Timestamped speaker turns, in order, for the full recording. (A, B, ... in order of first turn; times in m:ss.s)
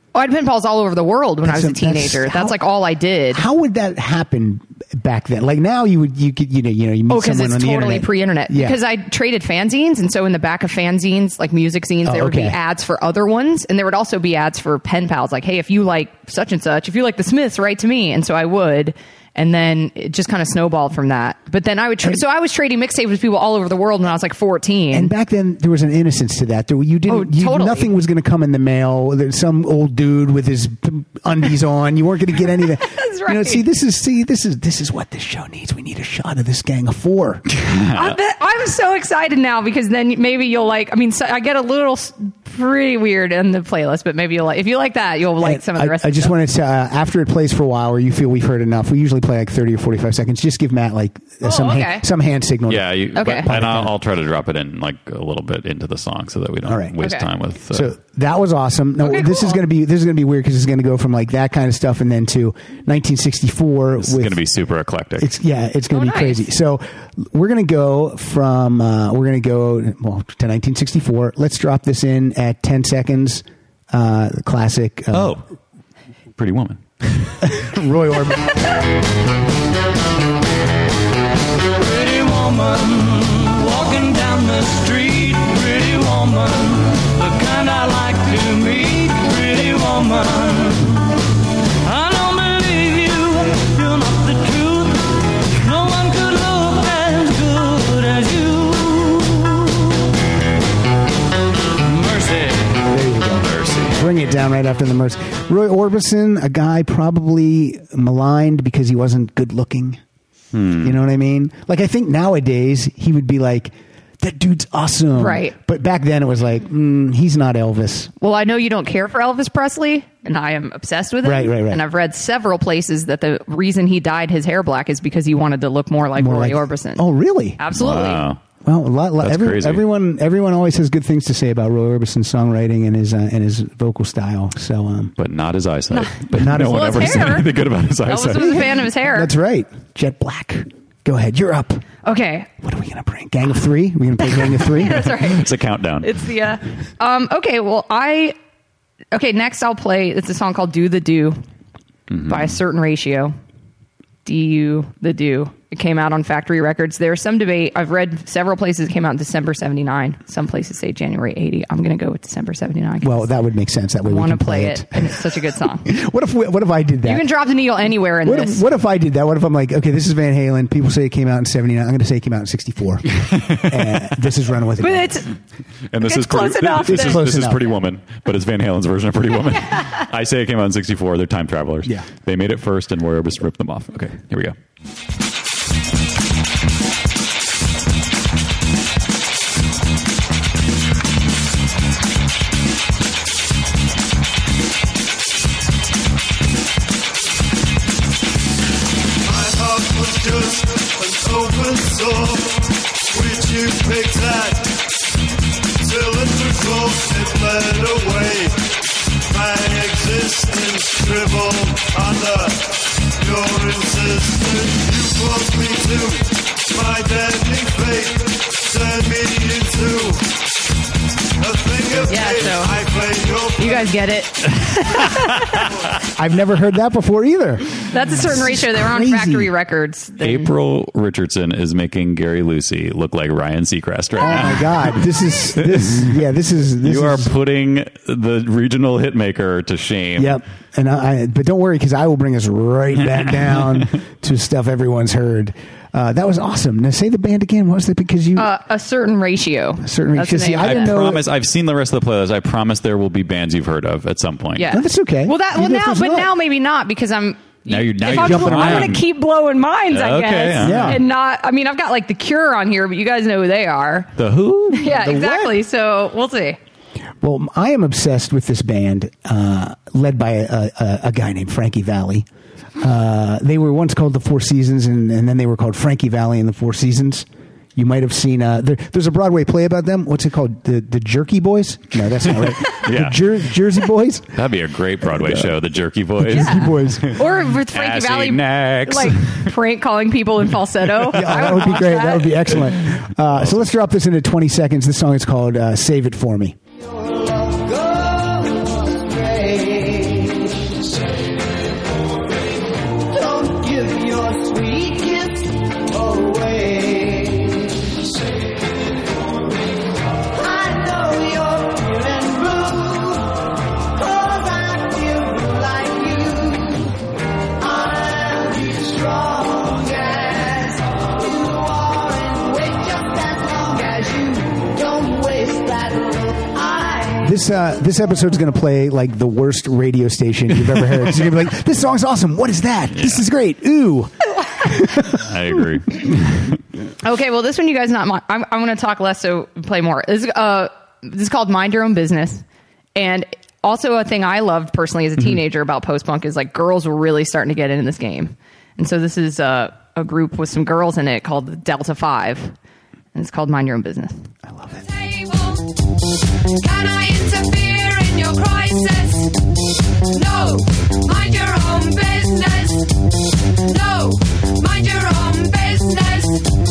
0:00.1-0:03.4 A
0:01.4-0:02.6 B
0:03.3-0:08.8 B
0:07.1-0:25.1 A
0:12.0-0:12.6 B
0:24.9-0:37.4 B
0:27.1-0:27.9 A
0:32.8-0:33.6 A
0:37.6-0:38.2 C
0:37.9-0:46.3 A
0:45.4-0:53.9 B
0:51.4-0:52.1 A
0:52.7-0:57.9 C
0:53.2-0:53.5 A
0:56.6-0:57.0 B
0:57.0-0:57.2 A
0:57.7-1:04.4 B
0:59.0-0:59.6 A
1:04.0-1:05.3 C
1:05.2-1:15.4 B
1:05.9-1:06.5 A
1:15.1-1:15.4 C
1:16.4-1:17.5 C
1:17.4-1:18.6 B
1:21.7-1:31.1 D
1:31.8-1:39.7 D
1:41.8-1:42.6 D
1:42.9-1:50.0 B
1:43.4-1:44.0 C
1:50.5-1:51.0 C
1:50.8-1:58.1 B
1:55.2-1:55.5 A
1:58.2-2:07.0 A
2:01.2-2:01.8 B
2:06.2-2:07.6 B
2:07.6-2:08.2 A
2:07.7-2:08.4 C
2:08.6-2:15.1 B
2:09.2-2:09.8 C
2:15.2-2:18.7 C
2:15.9-2:17.5 A
2:16.3-2:17.4 B
2:18.0-2:19.3 A
2:18.4-2:21.8 B
2:22.0-2:22.5 A
2:22.6-2:25.2 B
2:24.6-2:25.5 A
2:25.1-2:26.1 C
2:26.0-2:28.3 A
2:29.1-2:31.4 A
2:32.1-2:32.6 C
2:32.3-2:33.3 A
2:34.2-2:43.3 A
2:43.0-2:47.3 B
2:44.0-2:45.9 A
2:47.0-2:48.6 A
2:48.2-2:55.2 B
2:53.2-2:53.9 C
2:54.8-2:55.3 A
2:55.9-3:04.5 C
2:56.0-2:57.2 A
2:56.8-2:57.7 B
3:19.3-3:22.6 E
3:23.1-3:24.8 E
3:25.8-3:28.6 E
3:29.3-3:40.2 E
3:41.4-3:43.8 E
3:42.0-3:42.8 A
3:43.6-3:45.7 A
3:46.1-3:49.5 B
3:47.9-3:50.5 A
3:50.2-3:55.0 C
3:54.2-3:57.3 B
3:55.6-3:56.1 C
3:56.8-4:00.4 C
4:00.2-4:08.5 B
4:08.4-4:11.1 A
4:09.8-4:11.2 B
4:10.6-4:14.7 C
4:14.6-4:24.1 A
4:14.7-4:16.3 B
4:17.6-4:19.1 C
4:18.0-4:19.0 B
4:19.9-4:21.0 C
4:20.6-4:21.0 B
4:24.2-4:24.9 C
4:24.7-4:26.6 A
4:24.9-4:25.6 B
4:27.2-4:32.3 B
4:32.8-4:44.4 B
4:42.3-4:43.3 C
4:44.3-4:49.5 C
4:45.0-4:45.5 B
4:46.2-4:47.2 B
4:46.3-4:52.5 A
4:51.0-4:56.6 B
4:53.3-4:53.7 C
4:56.8-5:00.7 F
5:03.1-5:08.3 F
5:10.3-5:13.4 F
5:13.9-5:17.0 F
5:17.6-5:27.4 F
5:27.2-5:35.2 B
5:32.9-5:33.2 C
5:35.0-5:36.6 C
5:37.0-5:42.4 A
5:43.0-5:52.5 A
5:53.1-5:54.3 A
5:54.5-5:54.8 B
5:54.7-5:55.7 G
5:56.6-5:59.3 G
6:00.1-6:02.9 G
6:03.5-6:06.5 G